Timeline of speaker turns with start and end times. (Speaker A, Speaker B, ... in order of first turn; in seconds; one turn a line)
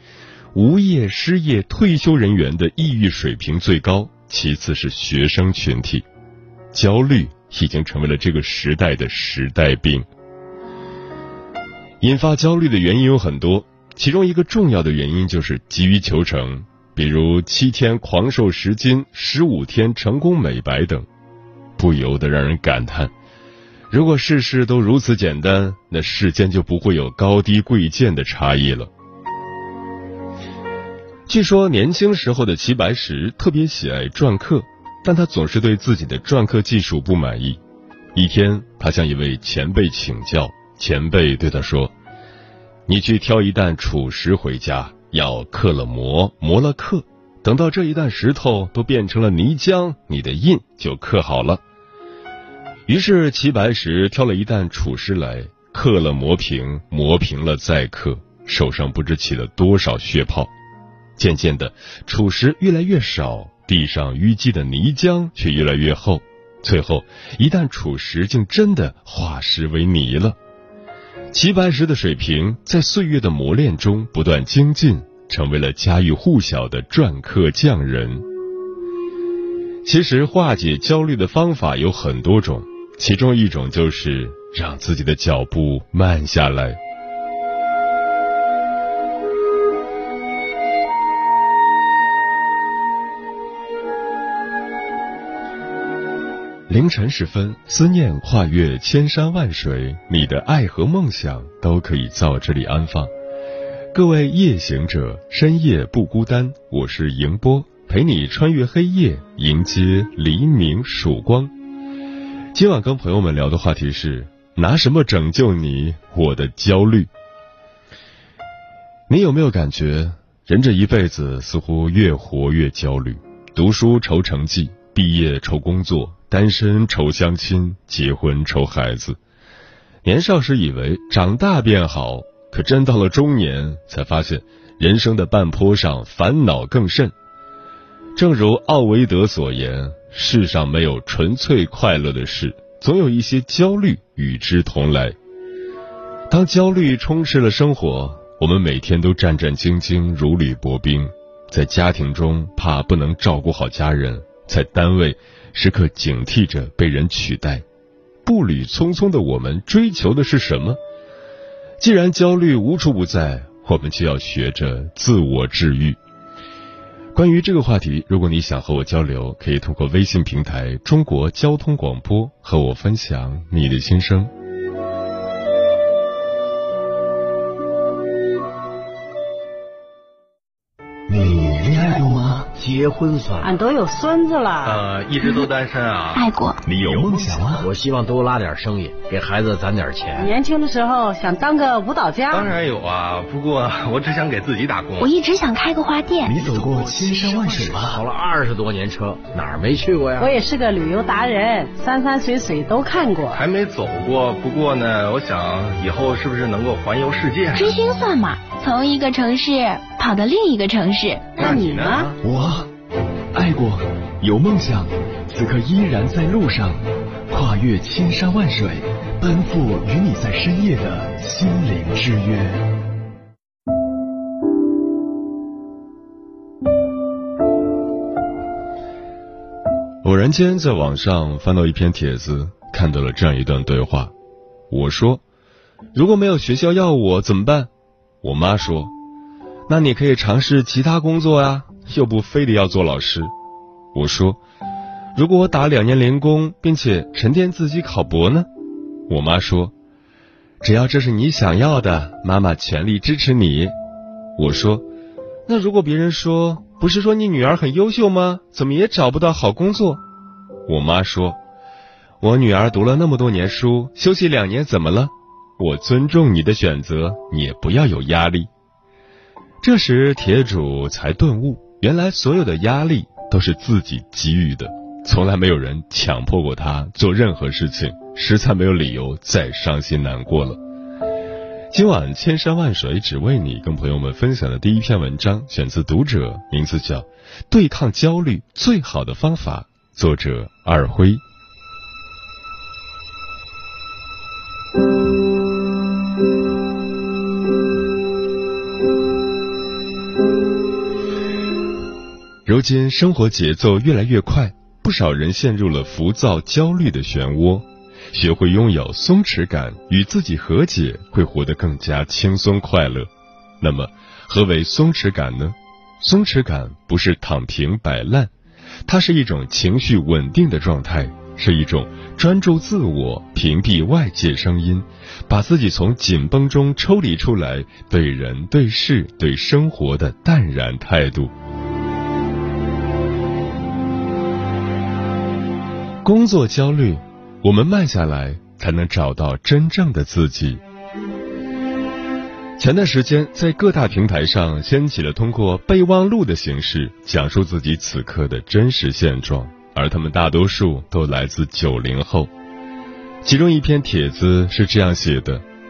Speaker A: 0.5-6.0
Speaker A: 6.7-10.1
Speaker A: 12.0-21.1
Speaker A: 21.8-23.1
Speaker A: 23.9-28.9
Speaker A: 31.3-37.6
Speaker A: 38.1-41.9
Speaker A: 42.9-51.6
Speaker A: 52.9-60.5
Speaker A: 61.2-70.4
Speaker A: 71.3-78.2
Speaker A: 79.8-86.8
Speaker A: 96.7-103.1
Speaker A: 103.9-111.5
Speaker A: 112.5-117.1
Speaker A: 119.1-129.2
Speaker A: 130.0-137.1
Speaker A: 138.1-145.2
Speaker A: 146.3-157.6
Speaker A: 158.2-160.8
Speaker A: 161.8-166.0
Speaker A: 167.1-174.3
Speaker B: 181.1-182.5
Speaker C: 182.5-183.6
Speaker D: 183.4-184.8
Speaker E: 184.6-186.2
Speaker F: 186.1-186.6
Speaker B: 186.6-187.7
Speaker C: 187.6-190.3
Speaker D: 190.2-192.5
Speaker E: 192.3-195.1
Speaker F: 195.0-196.3
Speaker B: 196.2-198.0
Speaker C: 196.4-200.4
Speaker D: 200.2-203.4
Speaker E: 203.3-207.7
Speaker F: 207.5-211.4
Speaker D: 211.4-212.1
Speaker E: 211.4-212.2
Speaker B: 212.2-212.7
Speaker B: 213.3-222.7
Speaker A: 230.0-234.1
Speaker A: 234.7-235.2
Speaker A: 235.9-237.7
Speaker A: 238.2-238.9
Speaker A: 239.7-243.3
Speaker A: 243.9-244.4
Speaker A: 245.1-248.5
Speaker A: 249.1-249.7
Speaker A: 250.6-253.7
Speaker A: 254.3-254.8
Speaker A: 255.5-260.0
Speaker A: 260.7-261.4
Speaker A: 262.2-268.5
Speaker A: 269.6-280.6
Speaker A: 281.7-291.2
Speaker A: 302.4-318.3
Speaker A: 318.9-331.3
Speaker A: 336.0-340.6
Speaker A: 342.6-352.3
Speaker A: 353.2-355.4